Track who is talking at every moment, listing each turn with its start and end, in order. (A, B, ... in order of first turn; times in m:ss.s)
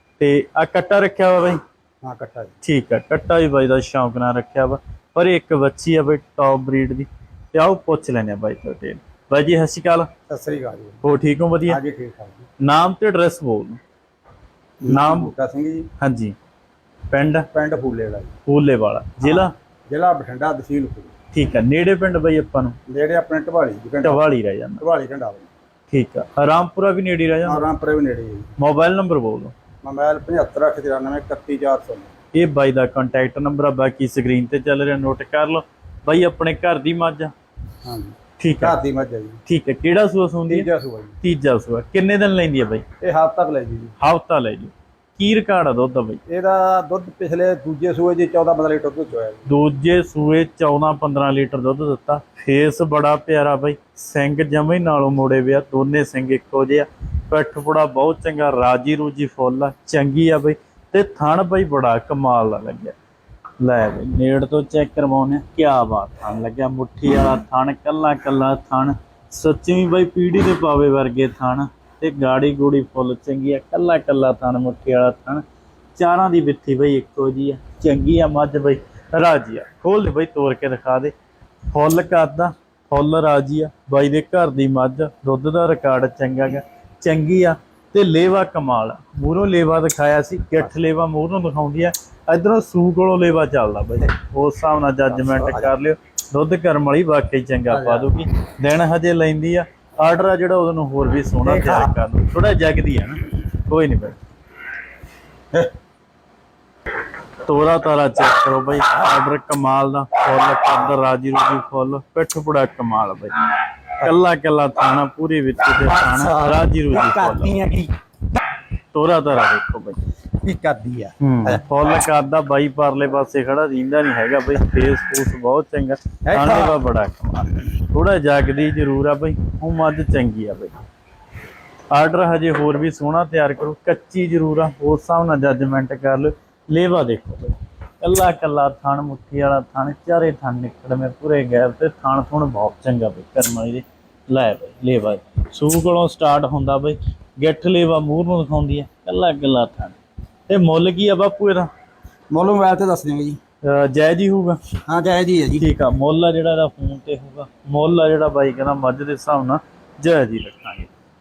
0:00.2-0:01.6 A
0:02.0-0:02.5 B
0:02.6-0:10.1 A
0:10.3-0:11.0 B
0:11.0-0:11.8 A
0:11.6-0:12.4 B
0:12.6-0:13.8 A
0:14.8-0:15.9 B
0:14.9-0:15.3 A
0:16.0-0:16.3 A
0:17.1-0:17.5 A
0:17.5-0:18.3 B
0:18.4-0:19.5 A
0:19.2-0:21.1 B
0:21.3-0:22.8 A
0:22.9-0:24.2 B
0:24.0-0:24.8 A
0:24.8-0:25.5 B
0:25.9-0:27.6 A
0:27.4-0:28.5 B
0:28.6-0:29.5 A
0:29.8-0:32.1 B
0:32.3-0:37.3 A
0:37.8-0:39.4 B
0:38.4-0:38.8 A
0:39.4-0:40.7 A
0:40.5-0:41.2 B
0:41.2-0:42.8 A
0:43.0-0:43.9 B
0:44.0-0:46.2 A
0:46.3-0:49.5 B
0:49.5-1:03.0 A
1:03.6-1:15.4 A
1:15.9-1:21.1 A
1:21.7-1:44.2 A
1:35.2-1:35.7 B
1:37.7-1:38.1 B
1:41.4-1:41.9 B
1:47.4-1:53.3 A
1:54.0-1:57.6 A
1:55.9-1:57.9 B
1:58.9-2:00.0 A
2:00.4-2:01.6 B
2:01.2-2:10.8 A
2:06.2-2:06.8 B
2:11.9-2:30.0 A
2:30.5-2:31.7 A
2:32.3-2:33.4 B
2:33.6-2:34.6 A
2:34.8-2:35.7 B
2:35.6-2:40.9 A